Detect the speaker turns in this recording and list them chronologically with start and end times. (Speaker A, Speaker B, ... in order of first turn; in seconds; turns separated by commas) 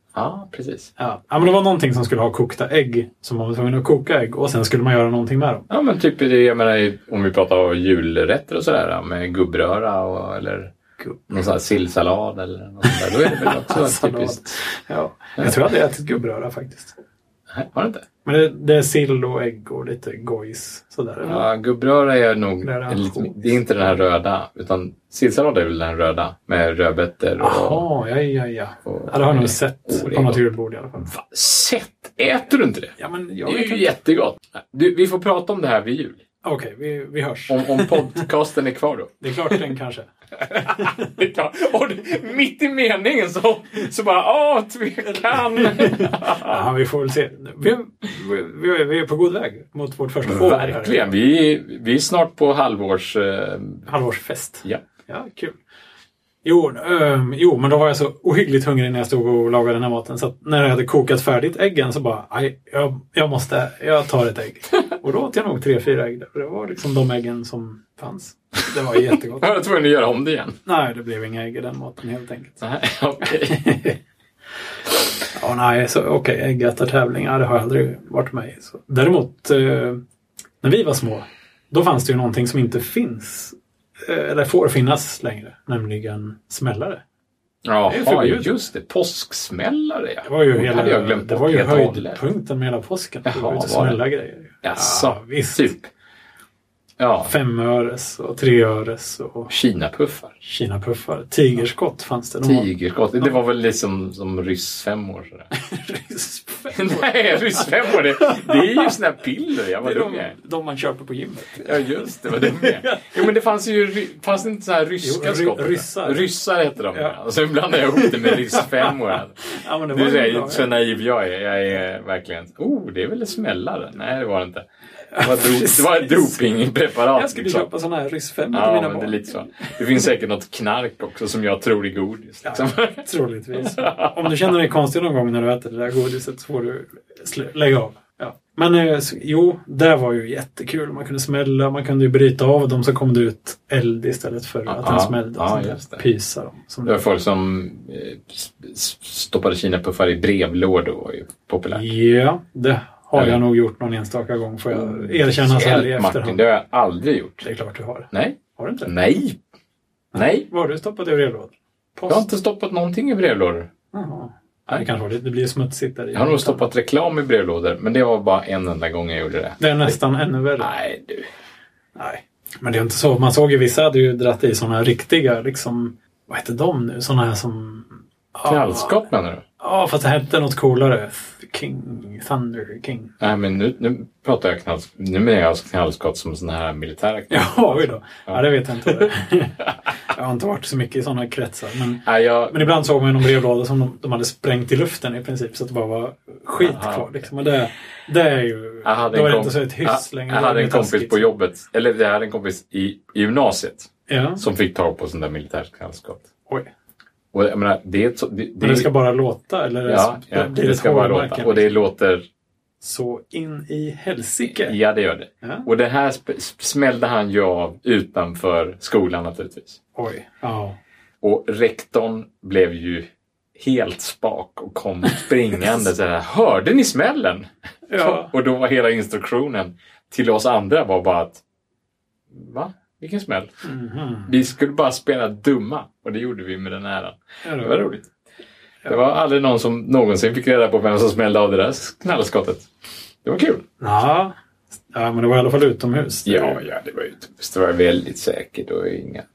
Speaker A: 0.1-0.9, Speaker B: 1.0-5.7, Speaker A: 5.7-10.7, Speaker B: 11.0-11.3, Speaker A: 11.3-14.6, Speaker B: 12.9-16.9, Speaker A: 17.5-18.0, Speaker B: 18.2-21.4, Speaker A: 21.2-27.8, Speaker B: 22.6-23.6, Speaker B: 27.4-31.1, Speaker A: 28.9-30.4, Speaker A: 31.0-32.9, Speaker B: 33.0-33.9, Speaker A: 33.4-36.2, Speaker B: 36.4-38.3, Speaker A: 37.5-39.6, Speaker B: 39.2-41.1, Speaker A: 40.5-46.6, Speaker B: 45.1-51.1, Speaker A: 50.2-53.9, Speaker B: 53.9-55.5, Speaker B: 56.4-69.5, Speaker A: 69.1-70.5, Speaker B: 70.6-72.6, Speaker A: 72.6-73.7, Speaker B: 73.2-74.0, Speaker B: 75.3-80.0, Speaker B: 80.6-87.0, Speaker A: 87.6-92.2, Speaker B: 87.9-88.5, Speaker B: 90.2-95.7, Speaker A: 93.2-94.0, Speaker A: 94.6-95.9, Speaker A: 97.0-97.3, Speaker B: 97.2-99.5, Speaker A: 99.5-100.3, Speaker B: 100.4-102.7, Speaker A: 102.4-105.5, Speaker B: 105.5-109.0, Speaker A: 106.7-110.3, Speaker B: 109.8-113.3, Speaker A: 111.5-124.6, Speaker B: 115.0-116.3, Speaker B: 117.9-120.7, Speaker B: 125.1-126.4, Speaker A: 125.2-127.7, Speaker B: 127.1-129.8, Speaker A: 128.5-133.0, Speaker B: 132.4-147.1, Speaker A: 133.6-134.5, Speaker A: 144.7-146.1, Speaker A: 146.8-151.9, Speaker B: 151.7-156.4, Speaker A: 153.1-153.4, Speaker A: 154.7-157.4, Speaker B: 157.4-158.9, Speaker A: 158.1-159.4, Speaker B: 160.1-162.3, Speaker A: 160.1-160.5, Speaker A: 162.1-163.7, Speaker B: 163.9-166.7, Speaker A: 166.1-169.9, Speaker B: 169.6-170.7, Speaker A: 170.6-171.3, Speaker B: 171.9-179.0, Speaker A: 178.4-179.4, Speaker B: 179.6-183.1, Speaker A: 183.2-188.4, Speaker B: 187.3-201.3, Speaker A: 192.0-192.7, Speaker A: 196.5-197.3, Speaker A: 198.8-206.2, Speaker B: 204.1-204.4, Speaker A: 207.3-208.9, Speaker B: 208.6-211.8, Speaker A: 209.9-212.2, Speaker B: 212.8-214.8, Speaker A: 214.6-219.8, Speaker B: 215.4-215.7, Speaker B: 219.9-220.8, Speaker A: 221.2-231.4, Speaker B: 227.9-228.3, Speaker A: 232.3-233.5, Speaker B: 233.6-234.3, Speaker A: 234.3-238.1, Speaker B: 237.4-237.8, Speaker A: 238.8-242.7, Speaker A: 243.2-243.6, Speaker B: 243.8-244.3, Speaker B: 244.9-246.6, Speaker A: 246.2-249.2